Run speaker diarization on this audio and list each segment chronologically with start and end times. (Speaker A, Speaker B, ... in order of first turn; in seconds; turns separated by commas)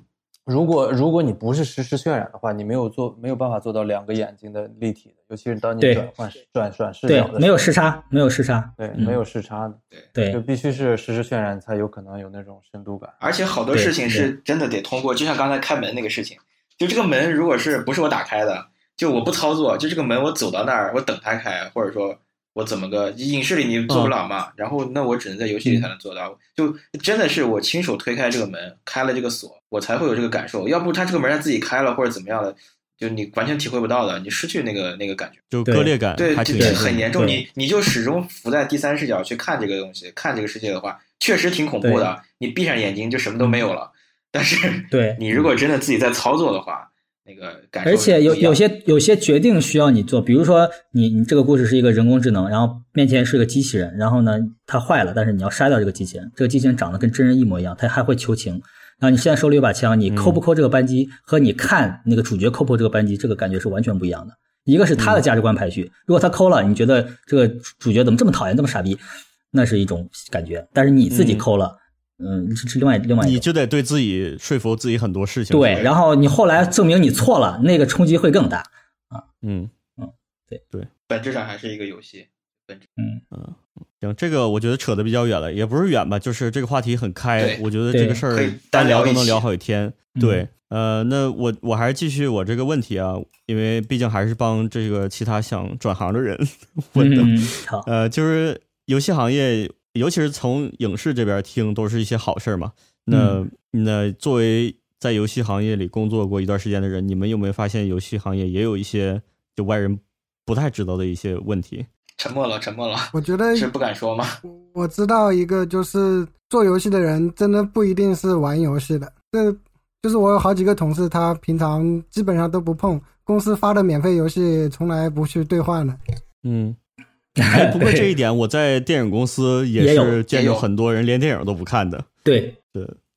Speaker A: 0.5-7.6, Speaker B: 5.8-6.1, Speaker B: 7.1-9.2, Speaker A: 8.8-13.2, Speaker B: 10.1-10.4, Speaker C: 13.2-35.4, Speaker B: 13.7-14.3, Speaker D: 23.9-24.1, Speaker B: 25.6-25.9, Speaker D: 35.5-37.1, Speaker B: 35.6-35.9, Speaker C: 36.1-48.6, Speaker B: 36.5-37.4, Speaker B: 41.8-42.1, Speaker B: 44.9-45.5, Speaker B: 47.8-69.0, Speaker D: 60.1-60.4, Speaker D: 65.0-65.2, Speaker B: 69.5-73.5, Speaker D: 71.1-71.5, Speaker D: 73.2-75.9, Speaker B: 75.5-79.2, Speaker D: 79.4-79.7, Speaker B: 80.0-80.6, Speaker C: 81.1-82.9, Speaker B: 83.0-83.2, Speaker D: 83.3-111.9, Speaker C: 87.4-87.6, Speaker B: 87.9-88.2, Speaker C: 88.3-89.4, Speaker B: 90.1-90.5, Speaker B: 97.0-97.9, Speaker B: 103.1-103.4, Speaker C: 112.2-114.4, Speaker E: 113.1-113.7, Speaker E: 114.4-126.0, Speaker D: 126.4-126.8, Speaker B: 127.4-128.2, Speaker D: 127.5-132.1, Speaker B: 129.8-130.2, Speaker C: 130.3-130.7, Speaker B: 132.2-132.6